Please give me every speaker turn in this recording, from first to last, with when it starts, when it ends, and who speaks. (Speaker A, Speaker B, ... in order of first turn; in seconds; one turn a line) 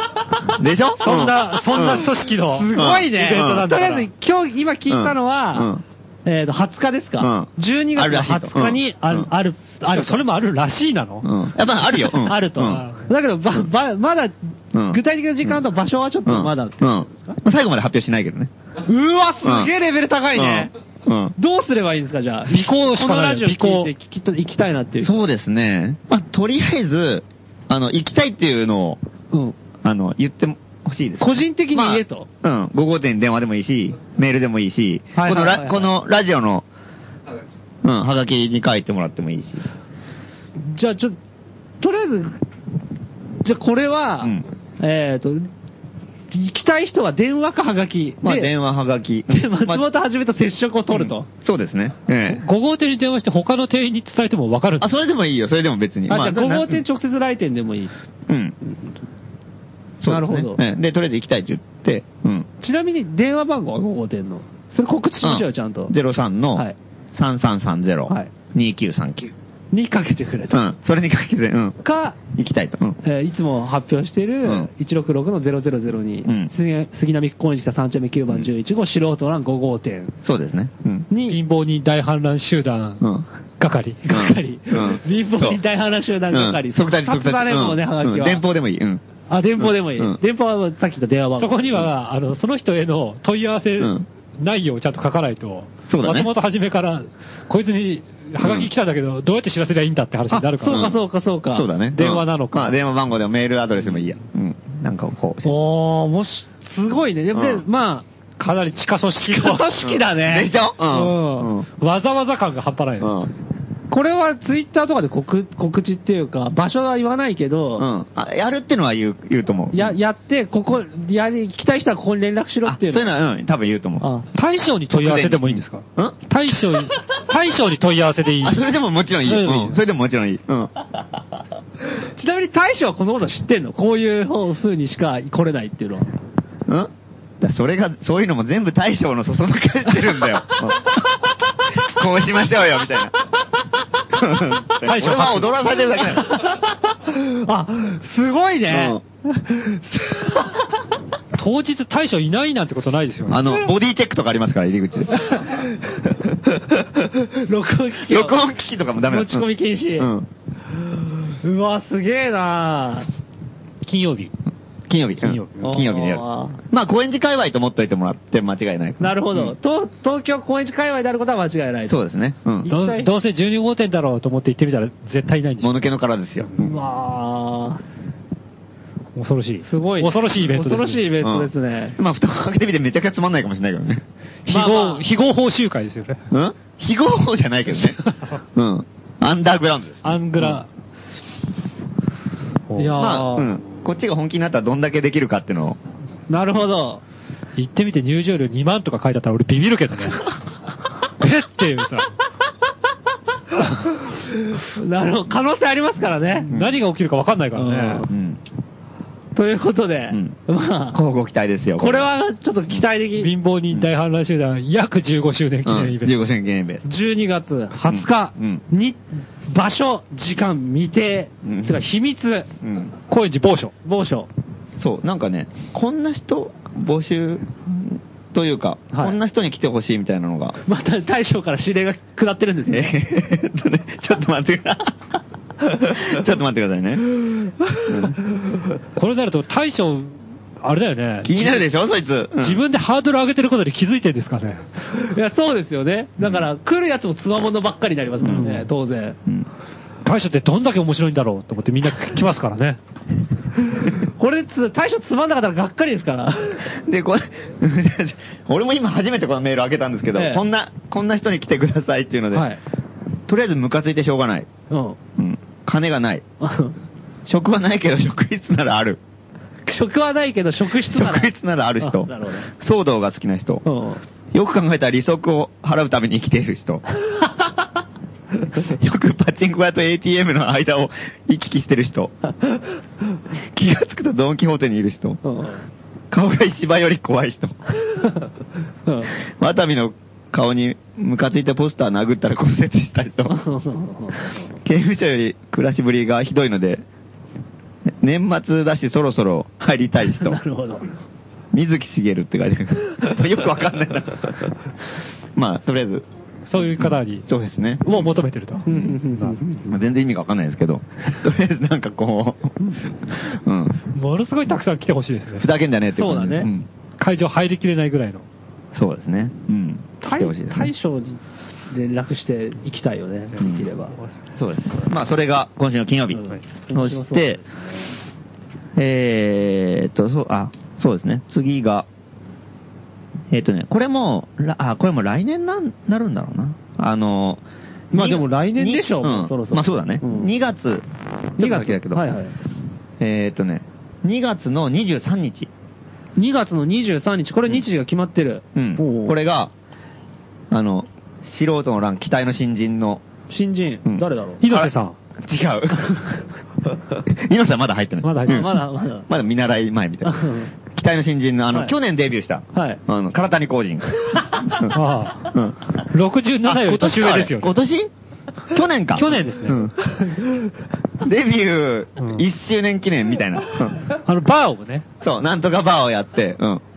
Speaker A: 0.5-2.1
Speaker B: 1.0-4.1
Speaker C: 1.0-5.7
Speaker A: 2.7-3.7
Speaker A: 4.9-5.8
Speaker C: 6.2-10.3
Speaker A: 7.2-9.3
Speaker B: 9.8-11.3
Speaker A: 11.2-12.8
Speaker C: 11.9-14.3
Speaker B: 12.6-13.1
Speaker A: 14.7-15.6
Speaker C: 14.9-17.4
Speaker A: 16.2-18.5
Speaker C: 18.9-20.7
Speaker A: 19.4-19.7
Speaker A: 20.3-21.3
Speaker C: 21.4-25.2
Speaker B: 22.5-23.9
Speaker A: 25.0-29.0
Speaker A: 29.8-36.6
Speaker C: 31.2-32.3
Speaker C: 35.1-35.9
Speaker A: 37.8-39.6
Speaker C: 40.7-41.1
Speaker C: 41.8-42.4
Speaker C: 43.4-45.5
Speaker C: 46.3-48.5
Speaker A: 48.2-49.9
Speaker C: 49.3-51.3
Speaker A: 50.9-52.4
Speaker B: 52.3-54.9
Speaker A: 54.8-56.8
Speaker C: 56.1-57.9
Speaker A: 58.3-58.5
Speaker A: 60.0-62.5
Speaker C: 60.0-60.6
Speaker C: 62.6-65.9
Speaker A: 65.2-69.3
Speaker C: 69.7-70.6
Speaker A: 70.5-73.0
Speaker C: 71.8-72.2
Speaker C: 73.0-80.1
Speaker A: 76.2-76.5
Speaker A: 80.2-81.1
Speaker C: 81.1-81.4
Speaker B: 81.3-83.1
Speaker A: 83.0-83.2
Speaker B: 83.6-84.0
Speaker C: 84.0-88.4
Speaker A: 84.1-85.6
Speaker A: 86.3-89.0
Speaker C: 89.3-91.8
Speaker A: 89.6-90.2
Speaker B: 91.4-100.9
Speaker A: 93.8-94.0
Speaker A: 95.9-96.3
Speaker A: 98.4-98.7
Speaker C: 100.3-101.7
Speaker A: 100.7-101.0
Speaker A: 101.5-105.5
Speaker B: 101.9-102.8
Speaker C: 105.4-108.0
Speaker A: 107.3-107.6
Speaker B: 108.4-109.7
Speaker C: 109.2-111.5
Speaker A: 109.8-111.7
Speaker B: 111.8-113.1
Speaker A: 113.0-113.3
Speaker C: 113.9-117.9
Speaker A: 117.8-119.9
Speaker C: 119.7-123.1
Speaker A: 122.6-124.0
Speaker C: 124.0-124.3
Speaker B: 124.3-128.6
Speaker A: 124.9-126.2
Speaker A: 128.4-130.7
Speaker B: 129.3-129.7
Speaker C: 132.0-136.1
Speaker A: 136.7-143.2
Speaker A: 144.1-146.5
Speaker B: 144.8-145.5
Speaker C: 146.1-150.6
Speaker A: 148.7-149.0
Speaker B: 151.3-153.4
Speaker A: 153.3-155.5
Speaker C: 155.2-155.6
Speaker A: 156.2-156.7
Speaker C: 157.2-158.4
Speaker A: 158.1-159.5
Speaker C: 159.1-160.1
Speaker A: 160.0-160.3
Speaker C: 161.2-163.1
Speaker B: 163.8-164.3
Speaker A: 164.9-169.5
Speaker B: 165.2-165.8
Speaker C: 165.6-166.6
Speaker C: 169.0-172.0
Speaker A: 171.9-172.7
Speaker C: 172.6-173.1
Speaker B: 172.7-175.9
Speaker A: 175.6-176.8
Speaker C: 176.6-177.8
Speaker B: 179.2-181.1
Speaker C: 179.6-182.0
Speaker A: 181.2-184.0
Speaker B: 184.4-186.2
Speaker C: 184.5-185.0
Speaker A: 186.3-188.0
Speaker B: 187.8-188.2
Speaker A: 188.5-190.6
Speaker B: 190.0-190.7
Speaker B: 192.7-193.0
Speaker C: 192.8-193.6
Speaker A: 192.9-195.8
Speaker C: 196.3-197.0
Speaker B: 197.6-200.3
Speaker B: 201.2-202.1
Speaker C: 204.4-206.5
Speaker B: 206.5-208.1
Speaker A: 206.5-206.8
Speaker C: 207.5-208.1
Speaker A: 208.1-208.4
Speaker C: 209.3-211.0
Speaker A: 210.9-212.1
Speaker C: 211.8-213.3
Speaker B: 213.2-216.2
Speaker A: 215.6-216.8
Speaker C: 216.8-222.5
Speaker A: 217.9-218.6
Speaker A: 221.4-221.8
Speaker A: 222.6-222.9
Speaker B: 223.1-223.7
Speaker C: 223.8-224.3
Speaker A: 224.8-230.6
Speaker C: 228.9-229.2
Speaker C: 230.7-232.9
Speaker A: 232.7-235.0
Speaker A: 235.6-237.1
Speaker A: 237.8-238.2
Speaker B: 238.9-241.6
Speaker A: 241.2-242.6
Speaker B: 242.4-244.6
Speaker C: 244.9-249.2
Speaker A: 248.2-248.5
Speaker B: 248.2-248.7
Speaker B: 250.0-252.8
Speaker C: 253.7-256.7
Speaker A: 256.8-262.5
Speaker C: 260.1-260.4
Speaker C: 262.3-262.6
Speaker A: 263.3-264.5
Speaker C: 264.7-265.0
Speaker A: 265.2-266.2
Speaker C: 266.4-266.8
Speaker A: 267.2-269.0
Speaker C: 269.6-272.5
Speaker A: 270.9-273.6
Speaker C: 273.6-274.0
Speaker A: 274.3-276.8
Speaker A: 278.5-282.1
Speaker A: 283.5-285.2
Speaker C: 285.2-285.6
Speaker A: 286.1-287.6
Speaker C: 288.9-289.1
Speaker A: 289.4-293.4
Speaker C: 293.3-294.4
Speaker A: 294.6-296.8
Speaker A: 297.9-300.4
Speaker C: 300.1-300.9
Speaker A: 301.5-304.5
Speaker A: 305.4-306.0
Speaker B: 306.5-307.2
Speaker A: 306.6-308.1
Speaker B: 307.8-309.4
Speaker C: 308.6-309.8
Speaker A: 309.7-312.6
Speaker A: 313.1-313.8
Speaker B: 313.9-315.5
Speaker A: 315.4-316.7
Speaker C: 315.9-316.5
Speaker B: 317.0-318.2
Speaker A: 318.7-320.7
Speaker C: 320.0-321.2
Speaker C: 321.7-323.9
Speaker A: 323.4-323.6
Speaker B: 323.5-324.1
Speaker A: 324.4-327.4
Speaker C: 326.1-327.6
Speaker A: 328.8-331.9
Speaker A: 333.3-342.1
Speaker C: 337.9-340.3
Speaker C: 341.4-342.3
Speaker A: 343.0-345.5
Speaker C: 346.2-349.1
Speaker A: 348.5-349.5
Speaker A: 350.5-353.0
Speaker C: 353.3-354.4
Speaker A: 353.8-356.1
Speaker B: 354.4-354.9
Speaker A: 357.0-358.5
Speaker B: 358.0-358.6
Speaker C: 358.2-359.1
Speaker A: 359.1-364.8
Speaker C: 360.0-360.5
Speaker C: 362.5-362.8
Speaker B: 364.6-367.5
Speaker A: 365.3-365.7
Speaker A: 366.4-367.9
Speaker A: 368.5-370.2
Speaker B: 368.9-369.6
Speaker C: 369.9-370.2
Speaker A: 371.0-373.9
Speaker B: 372.0-372.2
Speaker B: 373.9-374.8
Speaker A: 375.0-376.6